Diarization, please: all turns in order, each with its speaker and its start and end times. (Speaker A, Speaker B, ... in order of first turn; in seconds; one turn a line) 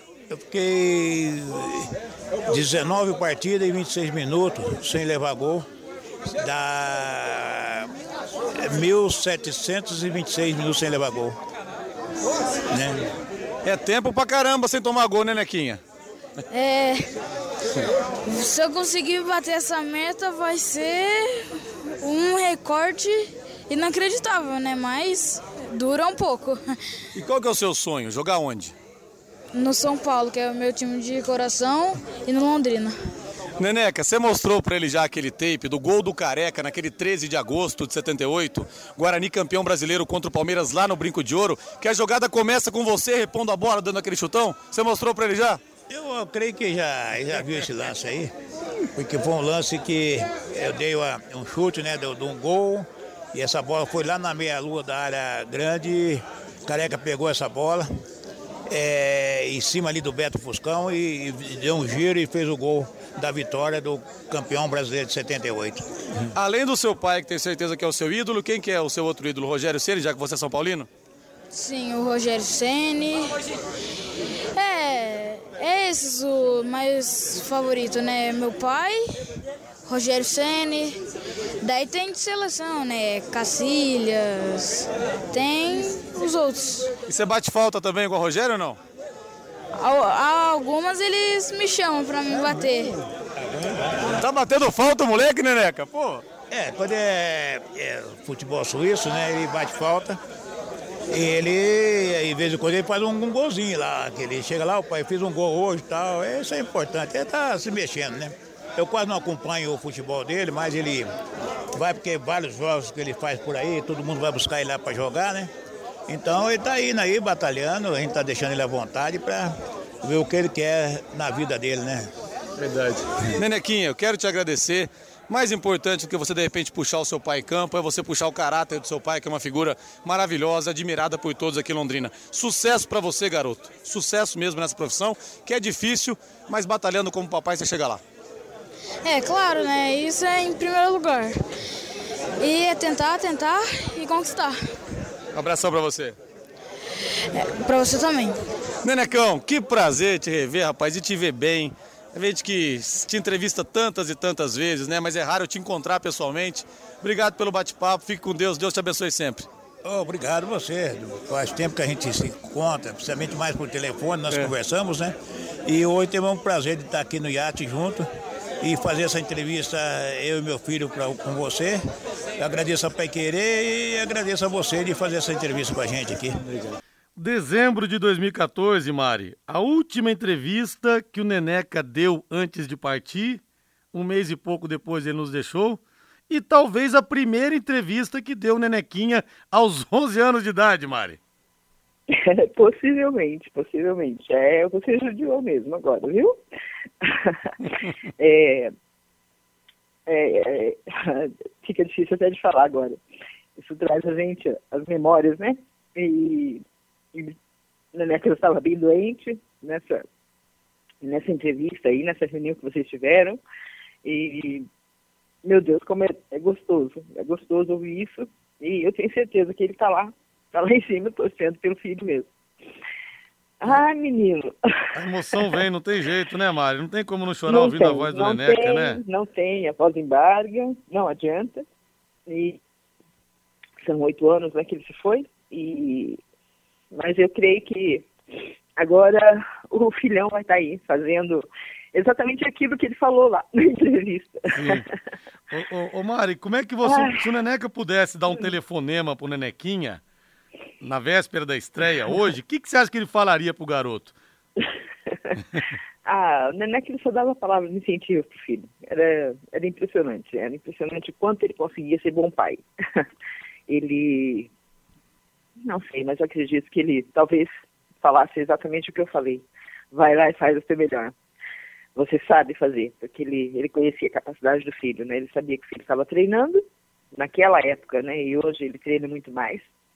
Speaker A: 0.3-1.9
Speaker A: 2.5-5.7
Speaker A: 6.4-7.9
Speaker A: 8.6-11.4
Speaker A: 12.7-13.1
Speaker B: 13.6-15.8
Speaker C: 16.5-17.1
Speaker C: 18.2-26.6
Speaker B: 27.1-28.8
Speaker C: 29.5-33.0
Speaker B: 33.6-45.6
Speaker A: 45.9-48.3
Speaker A: 49.0-57.9
Speaker A: 58.7-65.9
Speaker B: 66.3-70.9
Speaker C: 71.5-73.5
Speaker C: 74.5-79.3
Speaker C: 79.8-81.0
Speaker C: 81.6-86.9
Speaker B: 87.1-88.8
Speaker C: 89.8-93.0
Speaker A: 93.4-94.1
Speaker B: 94.2-96.2
Speaker A: 96.5-100.2
Speaker A: 101.1-111.2
Speaker A: 111.8-115.5
Speaker A: 116.1-122.1
Speaker B: 122.6-138.0
Speaker C: 139.0-141.4
Speaker C: 142.4-144.6
Speaker B: 145.3-146.2
Speaker C: 147.3-148.4
Speaker B: 148.8-159.5
Speaker A: 159.8-168.1
Speaker A: 168.6-171.8
Speaker A: 172.4-176.4
Speaker D: 177.2-183.4
Speaker D: 183.9-191.2
Speaker E: 192.1-196.4
Speaker E: 197.0-197.6
Speaker E: 198.2-198.7
Speaker E: 200.1-203.0
Speaker E: 203.6-206.6
Speaker E: 207.9-210.1
Speaker E: 211.0-213.4
Speaker E: 214.0-214.7
Speaker E: 215.4-222.3
Speaker E: 223.6-224.7
Speaker D: 224.9-229.0
Speaker E: 227.5-231.7
Speaker E: 232.3-232.6
Speaker E: 233.8-236.2
Speaker E: 236.9-238.1
Speaker E: 238.8-244.8
Speaker D: 244.5-244.9
Speaker D: 245.5-250.0
Speaker E: 246.8-247.2
Speaker D: 250.8-254.2
Speaker E: 256.1-263.0
Speaker E: 263.7-264.5
Speaker E: 265.6-267.5
Speaker E: 268.0-271.1
Speaker E: 271.9-276.6
Speaker E: 277.1-279.7